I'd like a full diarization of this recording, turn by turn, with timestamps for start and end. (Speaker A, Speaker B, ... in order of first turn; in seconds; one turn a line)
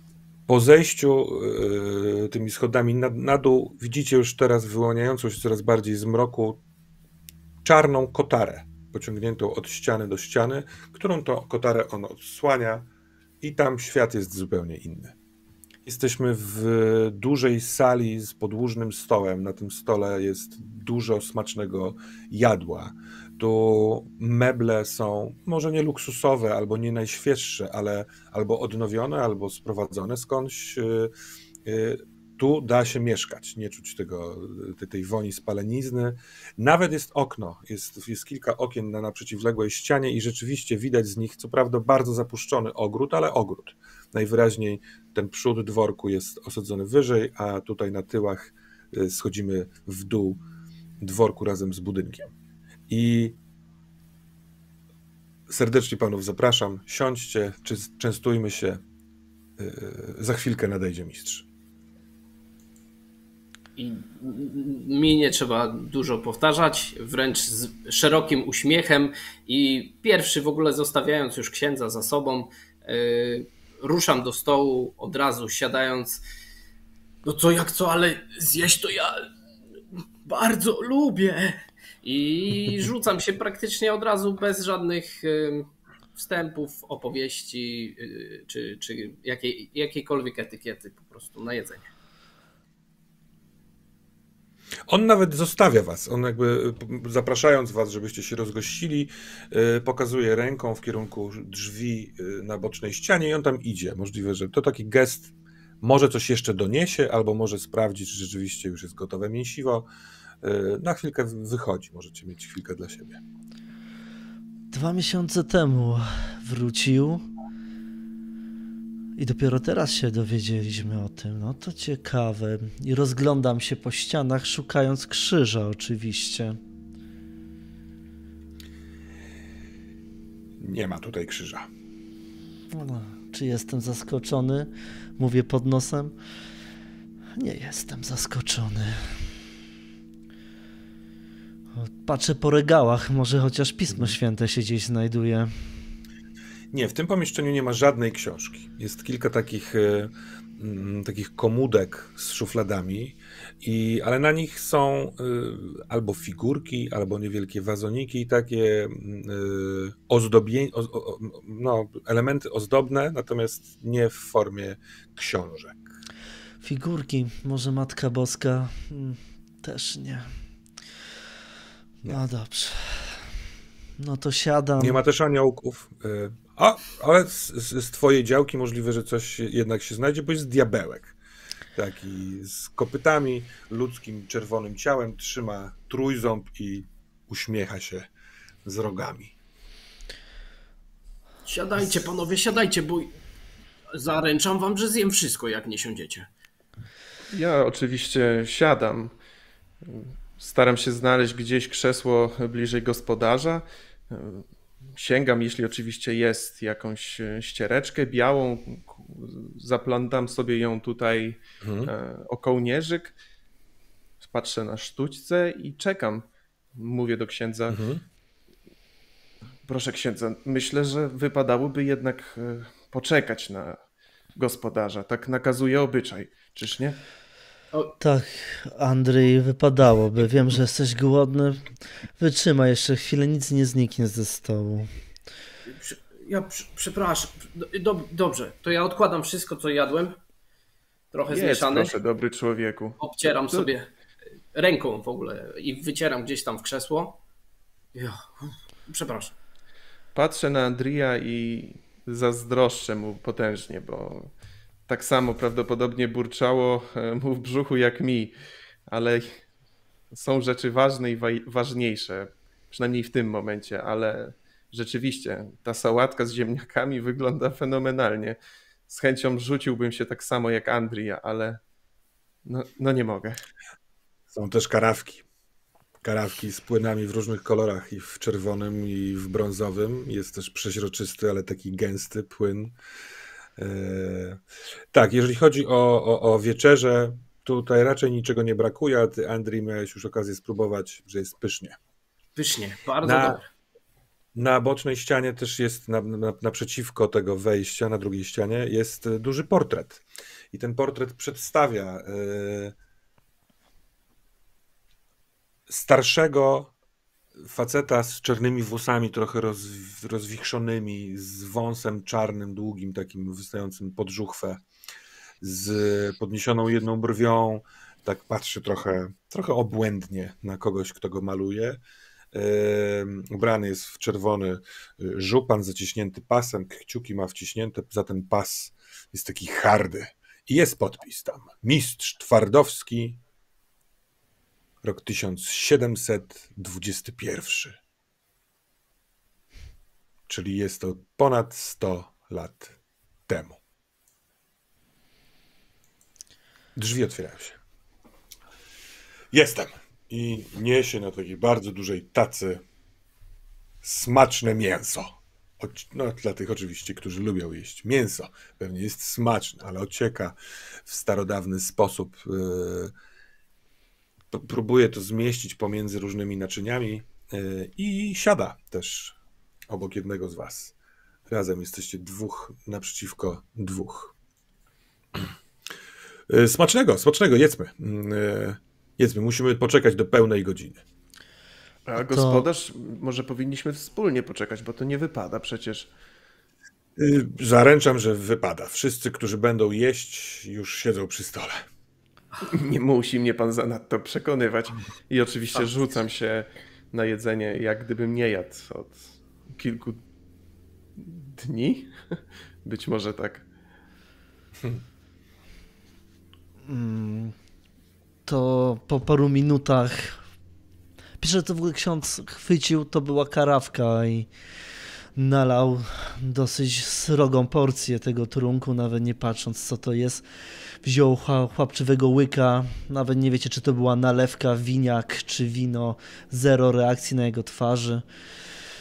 Speaker A: 0.5-6.6
Speaker A: 7.6-12.9
Speaker A: 13.4-15.1
Speaker A: 15.8-31.1
Speaker A: 31.6-50.4
Speaker A: 51.0-52.3
Speaker A: 52.9-53.4
Speaker A: 55.5-58.8
Speaker A: 59.6-61.5
Speaker B: 63.8-76.2
Speaker B: 77.2-79.2
Speaker B: 80.2-91.9
Speaker A: 94.9-109.9
Speaker A: 110.4-113.2
Speaker C: 114.7-117.2
Speaker C: 119.2-126.6
Speaker A: 130.6-131.7
Speaker C: 132.7-136.1
Speaker C: 137.4-139.3
Speaker C: 141.8-145.7
Speaker A: 143.9-144.2
Speaker A: 146.7-165.9
Speaker C: 166.6-170.3
Speaker C: 172.0-173.3
Speaker C: 174.0-175.0
Speaker A: 174.8-181.2
Speaker A: 181.7-188.1
Speaker A: 188.6-189.3
Speaker B: 191.4-193.1
Speaker B: 193.9-196.3
Speaker D: 197.3-199.1
Speaker D: 199.8-213.1
Speaker A: 211.6-211.9
Speaker D: 214.2-217.8
Speaker A: 217.7-218.0
Speaker D: 219.7-223.8
Speaker D: 224.3-227.0
Speaker C: 228.0-231.6
Speaker C: 232.2-234.9
Speaker B: 235.7-240.2
Speaker B: 241.1-241.9
Speaker D: 241.3-243.7
Speaker B: 243.0-243.9
Speaker B: 244.5-247.2
Speaker B: 247.9-249.3
Speaker D: 250.1-254.3
Speaker D: 254.9-258.3
Speaker D: 258.9-259.4
Speaker D: 260.1-268.4
Speaker D: 268.9-271.6
Speaker D: 272.4-273.4
Speaker A: 274.3-275.2
Speaker A: 276.0-282.7
Speaker A: 283.6-284.4
Speaker A: 284.9-291.8
Speaker B: 292.4-293.4
Speaker A: 293.0-293.4
Speaker A: 294.3-302.7
Speaker A: 305.7-306.7
Speaker A: 307.4-314.6
Speaker A: 315.4-321.8
Speaker A: 322.3-333.2
Speaker A: 334.8-337.8
Speaker A: 340.3-342.8
Speaker A: 343.3-343.6
Speaker A: 346.8-347.6
Speaker A: 349.3-352.6
Speaker A: 353.8-362.9
Speaker A: 364.3-369.1
Speaker A: 369.7-370.7
Speaker A: 371.3-374.1
Speaker A: 376.3-380.8
Speaker D: 381.9-385.9
Speaker C: 382.0-382.5
Speaker A: 386.9-391.6
Speaker D: 392.4-400.0
Speaker D: 400.9-403.4
Speaker C: 406.6-407.3
Speaker C: 408.2-410.2
Speaker C: 411.2-414.3
Speaker C: 415.1-428.0